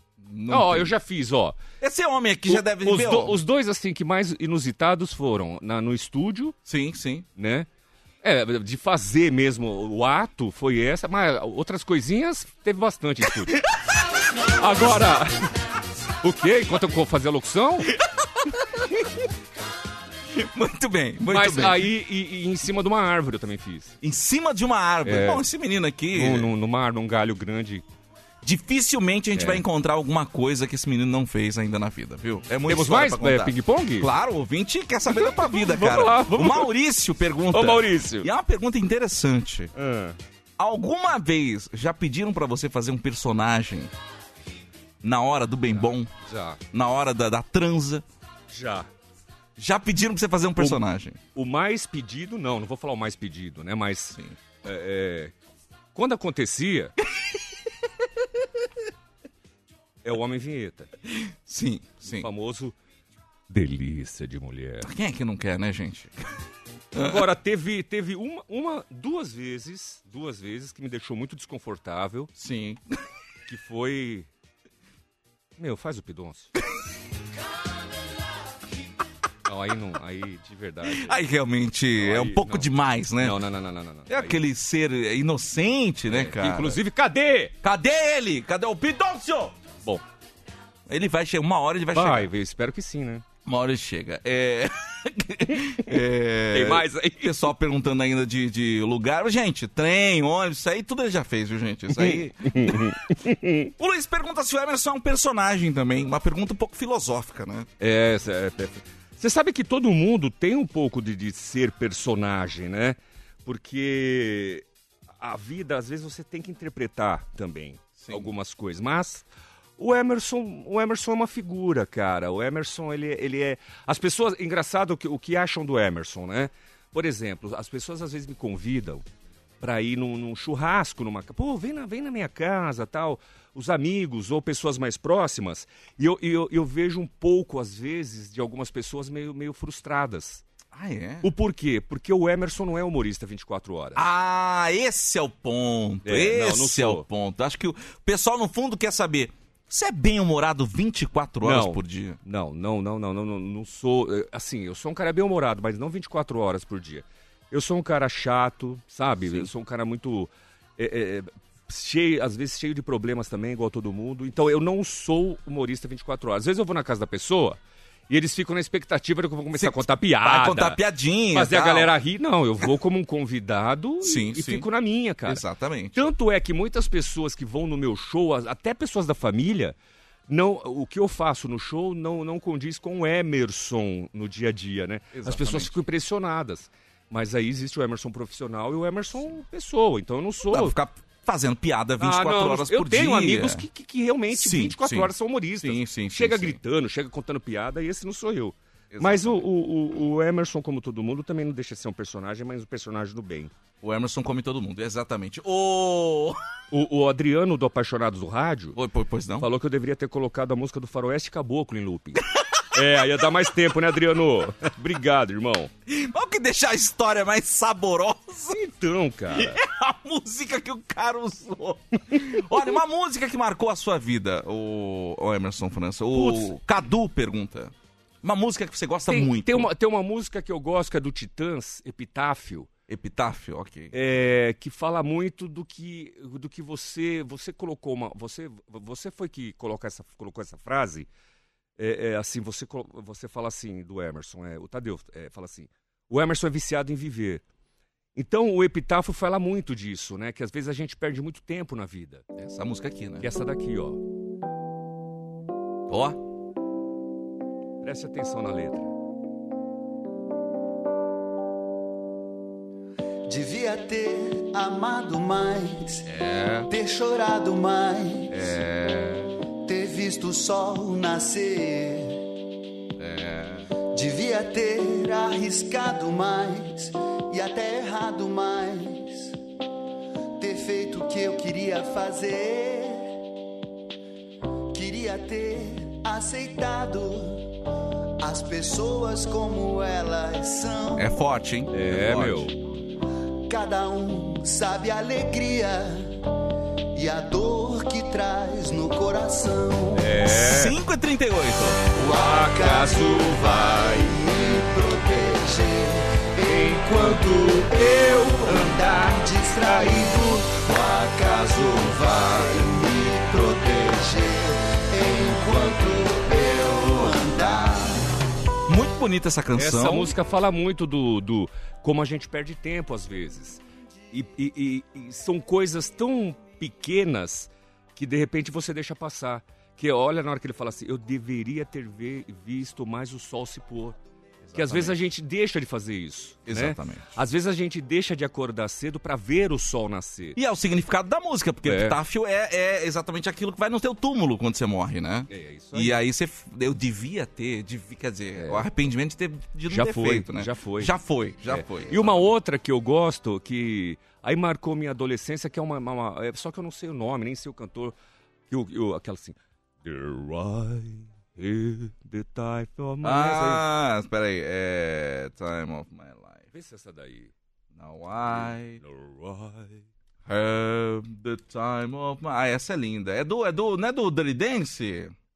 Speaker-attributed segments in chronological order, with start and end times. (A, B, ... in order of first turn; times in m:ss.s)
0:00.2-0:00.9 A
0:00.5-0:01.6 B
0:01.8-0:03.4 A
0:02.5-0:06.5 B
0:06.6-0:07.2 A
0:07.4-0:07.7 B
0:08.2-0:13.6 B
0:14.6-0:15.5 B
0:16.2-0:17.9 B
0:20.3-0:21.9 A
0:21.3-0:24.0 B
0:24.0-0:26.5 A
0:25.0-0:25.4 B
0:26.1-0:27.8 B
0:28.4-0:39.7 A
0:29.3-0:29.6 B
0:32.7-0:34.1 B
0:35.1-0:36.7 B
0:37.5-0:38.3 B
0:39.7-0:40.2 B
0:40.6-0:43.9 A
0:45.0-0:46.1 A
0:45.7-0:46.6 B
0:46.7-0:48.0 A
0:48.5-0:48.9 B
0:49.6-0:51.2 A
0:51.3-0:55.3 B
0:55.9-0:56.9 B
1:00.0-1:00.9 B
1:01.1-1:02.3 A
1:02.0-1:02.7 B
1:03.5-1:04.9 B
1:04.8-1:06.1 A
1:06.9-1:07.2 A
1:07.0-1:12.3 B
1:12.4-1:12.8 A
1:13.5-1:14.3 B
1:15.6-1:16.5 B
1:19.4-1:21.2 B
1:20.8-1:23.4 A
1:22.0-1:22.7 B
1:23.2-1:24.4 B
1:24.1-1:26.8 A
1:26.1-1:27.5 B
1:27.6-1:29.5 A
1:30.9-1:32.3 A
1:31.9-1:33.2 B
1:33.4-1:42.8 A
1:36.5-1:37.5 B
1:41.9-1:43.7 B
1:43.8-1:47.7 A
1:47.8-1:54.6 B
1:55.2-1:59.2 B
1:58.0-1:58.3 A
1:59.8-2:09.0 B
2:09.6-2:20.4 B
2:20.7-2:21.3 A
2:21.2-2:24.0 B
2:24.0-2:32.2 A
2:26.0-2:27.0 B
2:31.4-2:50.8 B
2:49.6-2:51.9 A
2:51.3-2:55.4 B
2:54.0-2:54.7 A
2:55.3-2:56.1 A
2:55.9-2:59.8 B
3:00.3-3:10.8 B
3:05.1-3:05.7 A
3:10.5-3:13.6 A
3:12.0-3:23.5 B
3:14.3-3:16.6 A
3:18.9-3:19.4 A
3:23.8-3:26.4 A
3:26.7-3:28.8 B
3:28.7-3:29.5 A
3:29.4-3:35.7 B
3:35.9-3:38.6 A
3:38.5-3:39.6 B
3:39.3-3:49.7 A
3:46.1-3:46.5 B
3:49.1-3:52.7 B
3:52.9-3:53.9 A
3:53.9-4:01.1 B
4:01.8-4:07.4 B
4:08.2-4:12.2 B
4:12.4-4:13.3 A
4:13.2-4:14.0 B
4:15.9-4:16.2 A
4:17.8-4:18.9 B
4:23.3-4:26.0 C
4:26.1-4:26.7 A
4:26.7-4:28.3 C
4:28.3-4:28.6 B
4:28.3-4:29.2 A
4:29.6-4:32.2 C
4:33.0-4:33.7 A
4:33.9-4:39.4 C
4:40.4-4:43.1 C
4:44.7-4:47.5 C
4:48.2-4:51.1 C
4:50.9-4:52.5 A
4:51.7-4:52.6 B
4:53.5-4:56.2 C
4:56.9-5:00.1 C
4:59.9-5:00.7 B
5:00.2-5:01.8 A
5:01.9-5:18.1 C
5:02.0-5:04.1 B
5:18.7-5:20.1 A
5:19.6-5:23.6 B
5:24.1-5:34.0 B
5:34.4-5:35.0 A
5:34.5-5:40.4 B
5:36.5-5:37.1 A
5:40.4-5:52.2 A
5:41.6-5:42.0 B
5:45.3-5:46.0 B
5:48.3-5:48.6 B
5:49.7-5:50.9 B
5:51.5-5:57.9 B
5:58.5-6:03.6 B
6:03.0-6:06.5 A
6:06.5-6:07.3 B
6:07.7-6:08.8 A
6:08.3-6:09.9 B
6:10.2-6:15.1 A